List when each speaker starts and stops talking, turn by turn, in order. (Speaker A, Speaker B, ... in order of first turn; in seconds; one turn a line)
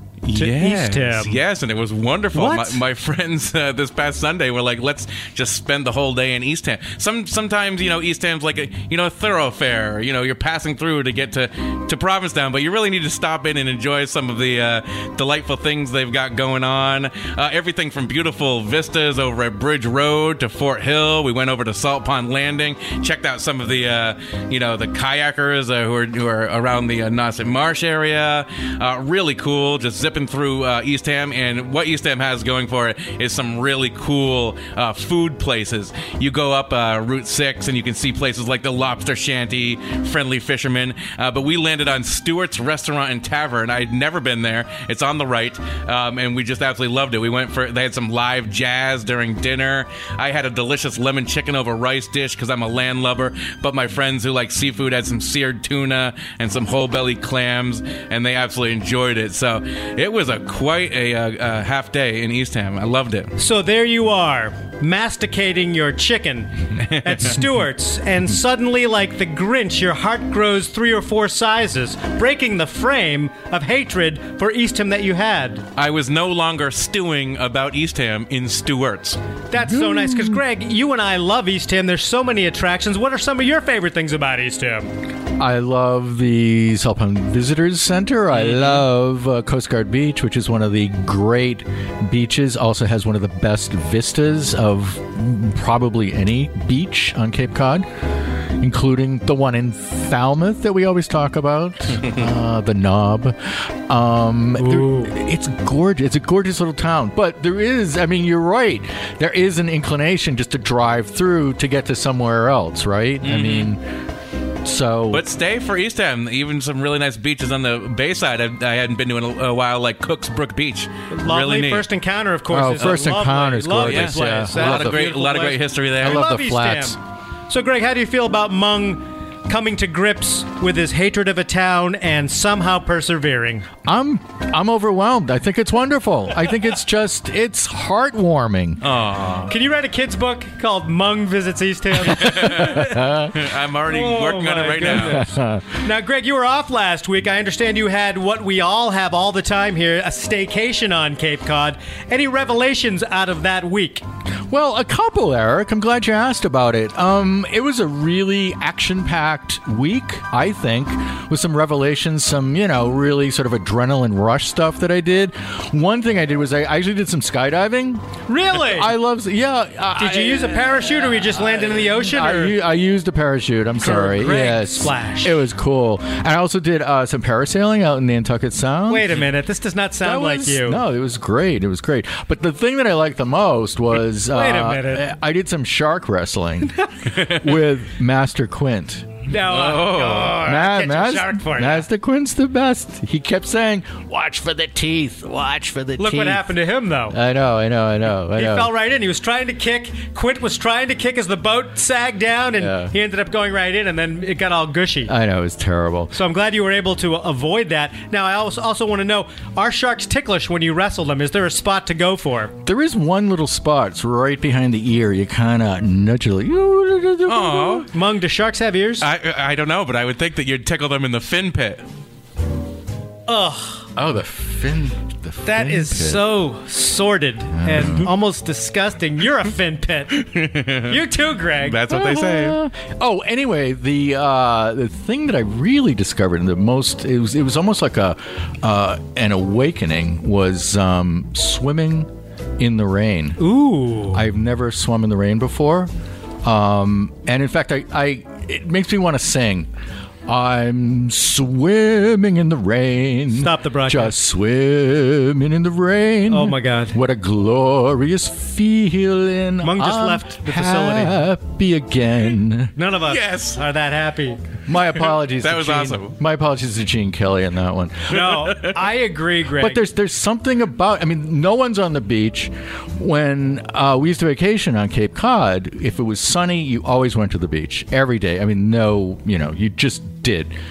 Speaker A: 0.2-63.3
Speaker B: 0.3-1.4
Speaker B: 2.3-2.8
Speaker B: 63.4-75.6
Speaker A: 66.8-67.4
Speaker A: 75.8-79.2
Speaker B: 79.5-84.9
Speaker C: 79.7-80.4
Speaker C: 85.4-97.9
Speaker A: 88.3-88.8
Speaker C: 98.6-113.9
Speaker B: 104.6-105.1
Speaker A: 113.2-113.7
Speaker C: 114.6-115.2
Speaker A: 115.1-121.9
Speaker B: 121.1-127.0
Speaker C: 122.5-125.0
Speaker A: 123.8-126.2
Speaker C: 126.0-127.0
Speaker B: 127.5-133.7
Speaker C: 133.8-138.8
Speaker A: 138.8-139.5
Speaker B: 139.5-143.2
Speaker A: 142.1-145.2
Speaker C: 142.1-143.3
Speaker B: 143.9-154.0
Speaker C: 145.0-145.8
Speaker C: 154.5-179.2
Speaker B: 168.3-168.9
Speaker B: 170.0-172.6
Speaker B: 173.8-175.4
Speaker B: 178.9-180.8
Speaker C: 180.0-189.1
Speaker B: 184.3-185.1
Speaker B: 189.3-191.8
Speaker A: 189.4-190.4
Speaker C: 190.4-196.4
Speaker B: 196.0-197.2
Speaker C: 197.1-198.7
Speaker B: 198.3-205.1
Speaker C: 202.6-202.9
Speaker C: 205.1-206.1
Speaker B: 206.1-212.5
Speaker C: 212.6-217.9
Speaker A: 217.3-217.9
Speaker B: 217.9-219.1
Speaker A: 219.0-221.8
Speaker B: 223.3-223.9
Speaker C: 223.9-226.2
Speaker B: 225.4-230.2
Speaker C: 227.5-228.1
Speaker A: 230.2-230.9
Speaker B: 230.8-231.9
Speaker A: 231.6-232.6
Speaker C: 231.9-243.4
Speaker B: 243.4-244.2
Speaker C: 244.1-245.9
Speaker C: 246.4-249.7
Speaker C: 250.3-262.7
Speaker B: 253.3-254.2
Speaker B: 256.3-256.9
Speaker B: 259.6-261.2
Speaker B: 262.8-264.4
Speaker A: 263.1-263.6
Speaker C: 264.7-268.3
Speaker A: 265.4-266.1
Speaker B: 268.1-269.8
Speaker A: 268.2-268.7
Speaker C: 269.6-280.5